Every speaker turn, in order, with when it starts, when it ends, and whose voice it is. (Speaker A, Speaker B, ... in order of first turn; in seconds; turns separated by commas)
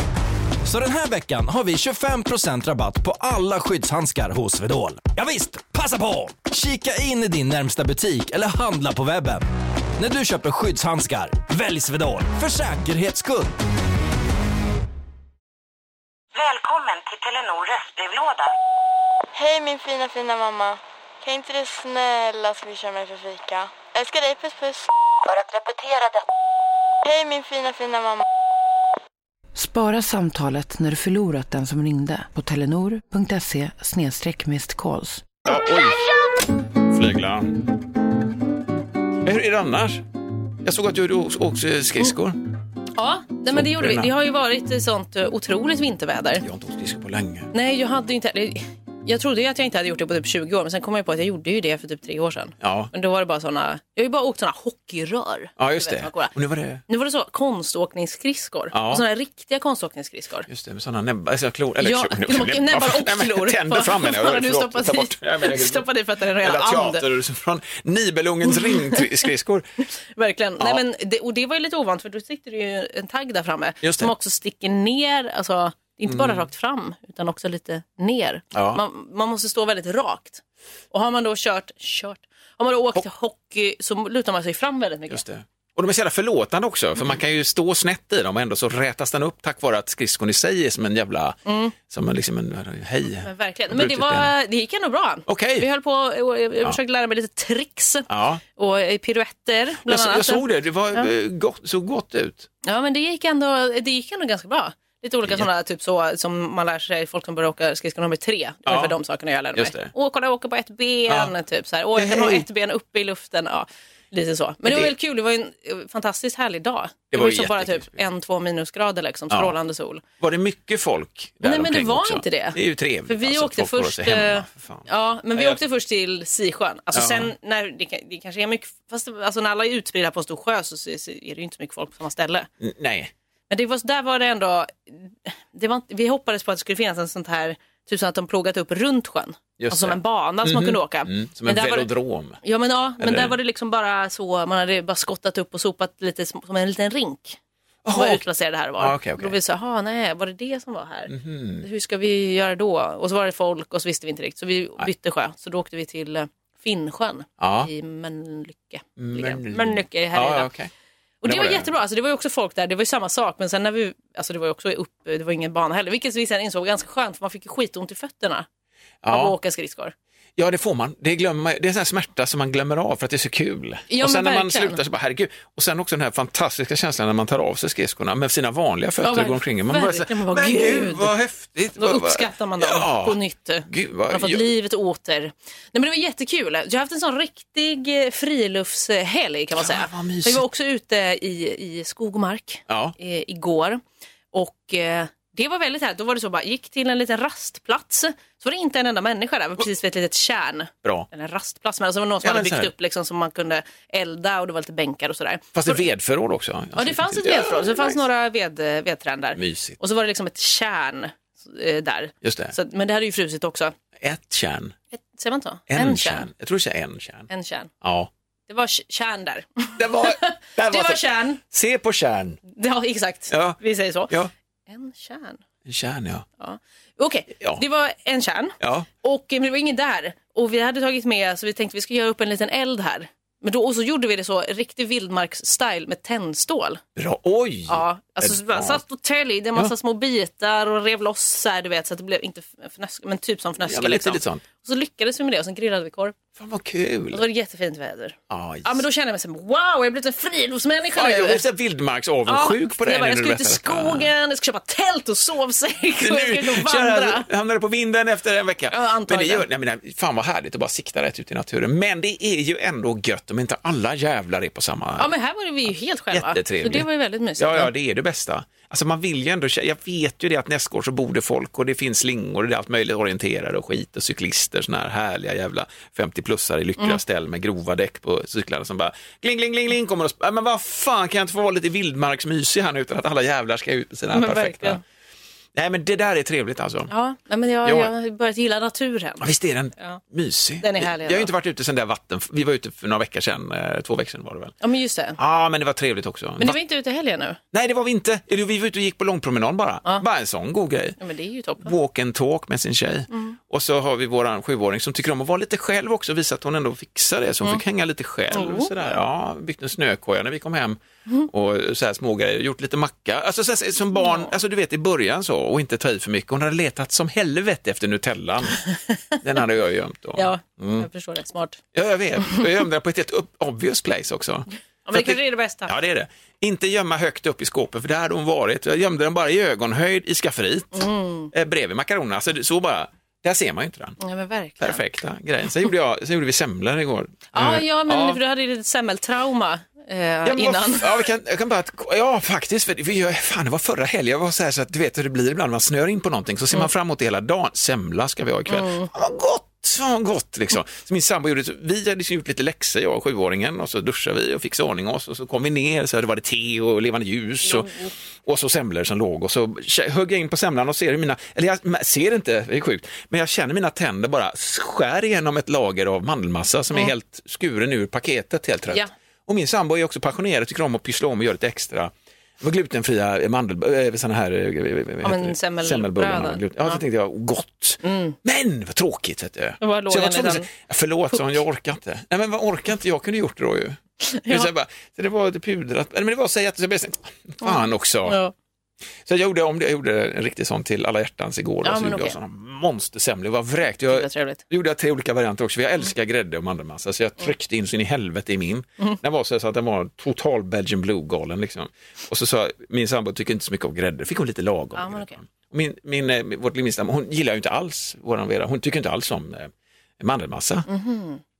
Speaker A: 0.6-9.4, Speaker A: 10.0-13.5, Speaker B: 16.3-18.5, Speaker C: 19.3-24.9, Speaker B: 25.2-26.2, Speaker C: 27.0-28.2, Speaker D: 29.5-35.4, Speaker E: 35.5-36.0, Speaker E: 36.9-37.6, Speaker E: 39.2-40.0, Speaker E: 40.6-42.4, Speaker F: 43.0-46.4, Speaker E: 43.5-44.1, Speaker E: 46.4-47.5, Speaker F: 47.5-56.3, Speaker E: 52.6-52.9, Speaker E: 55.6-56.8, Speaker F: 56.9-60.5, Speaker E: 58.7-59.0, Speaker E: 60.5-65.9, Speaker F: 61.8-67.0, Speaker E: 66.4-69.7, Speaker F: 68.5-69.2, Speaker F: 70.0-85.2, Speaker E: 73.8-74.1, Speaker E: 76.0-76.5, Speaker E: 78.5-78.8, Speaker E: 85.1-91.4, Speaker F: 91.5-91.7, Speaker E: 91.9-94.3, Speaker F: 93.2-101.1, Speaker E: 95.3-95.7, Speaker E: 98.1-98.4, Speaker E: 99.8-102.5, Speaker F: 102.6-120.0, Speaker E: 108.7-109.0, Speaker E: 109.5-109.9, Speaker E: 111.1-111.3, Speaker E: 112.0-112.5, Speaker E: 114.6-114.9, Speaker E: 117.1-118.0, Speaker E: 120.2-125.6, Speaker F: 121.4-132.5, Speaker E: 126.9-127.3, Speaker E: 132.6-133.1, Speaker F: 133.5-141.9, Speaker E: 139.6-142.4, Speaker F: 142.4-147.4, Speaker E: 143.0-143.3, Speaker E: 147.8-148.2, Speaker F: 147.9-160.5, Speaker E: 148.8-149.4, Speaker E: 151.1-151.7, Speaker E: 157.4-157.7, Speaker E: 159.0-160.7, Speaker F: 161.2-168.4, Speaker E: 161.2-161.7, Speaker E: 169.0-169.3, Speaker F: 169.1-169.9, Speaker E: 170.4-184.5, Speaker F: 173.9-174.8, Speaker F: 179.0-181.1, Speaker F: 181.8-193.8, Speaker E: 189.6-190.4, Speaker E: 192.7-192.9, Speaker F: 194.3-205.8, Speaker E: 202.2-202.7, Speaker E: 205.5-208.0, Speaker F: 206.8-213.7, Speaker E: 209.3-209.8, Speaker E: 212.2-212.5, Speaker E: 214.0-214.8, Speaker F: 214.9-216.3, Speaker E: 215.7-217.3, Speaker F: 217.3-217.7, Speaker E: 217.8-218.1, Speaker F: 218.5-221.4, Speaker E: 219.8-222.4, Speaker F: 222.5-224.2, Speaker E: 223.3-224.3, Speaker F: 224.7-225.4, Speaker E: 225.7-226.2, Speaker F: 226.4-236.8, Speaker E: 228.6-228.9, Speaker E: 236.9-238.8, Speaker F: 237.7-246.2, Speaker E: 243.6-244.4, Speaker E: 246.4-247.2, Speaker F: 247.1-251.4, Speaker E: 248.3-248.8, Speaker E: 250.9-254.1, Speaker F: 252.3-257.3, Speaker E: 256.0-265.1, Speaker F: 258.7-259.4, Speaker F: 265.0-267.7, Speaker E: 266.1-284.8, Speaker F: 284.1-284.8, Speaker E: 285.5-286.9, Speaker F: 286.9-290.0, Speaker E: 287.6-287.9, Speaker E: 289.2-294.5, Speaker F: 290.6-291.3, Speaker F: 294.6-295.2, Speaker E: 295.2-296.6, Speaker F: 296.4-297.4, Speaker E: 297.5-301.0, Speaker F: 301.0-301.7, Speaker E: 301.6-318.6, Speaker F: 303.1-303.4, Speaker F: 308.3-309.0, Speaker F: 313.9-314.3, Speaker F: 318.6-319.1, Speaker E: 319.2-320.9, Speaker F: 320.1-321.6, Speaker E: 321.7-334.0, Speaker F: 324.9-325.7, Speaker F: 330.7-331.3, Speaker F: 334.0-334.8, Speaker E: 334.6-338.2, Speaker F: 337.3-341.1, Speaker E: 340.2-388.2, Speaker F: 348.5-348.9, Speaker F: 357.4-357.9, Speaker F: 375.0-376.8, Speaker F: 377.8-378.1, Speaker F: 379.6-380.5, Speaker F: 384.0-384.5, Speaker F: 387.4-388.3, Speaker E: 389.1-410.7, Speaker F: 391.6-392.1, Speaker F: 393.9-394.4, Speaker F: 404.7-405.1, Speaker F: 410.7-411.2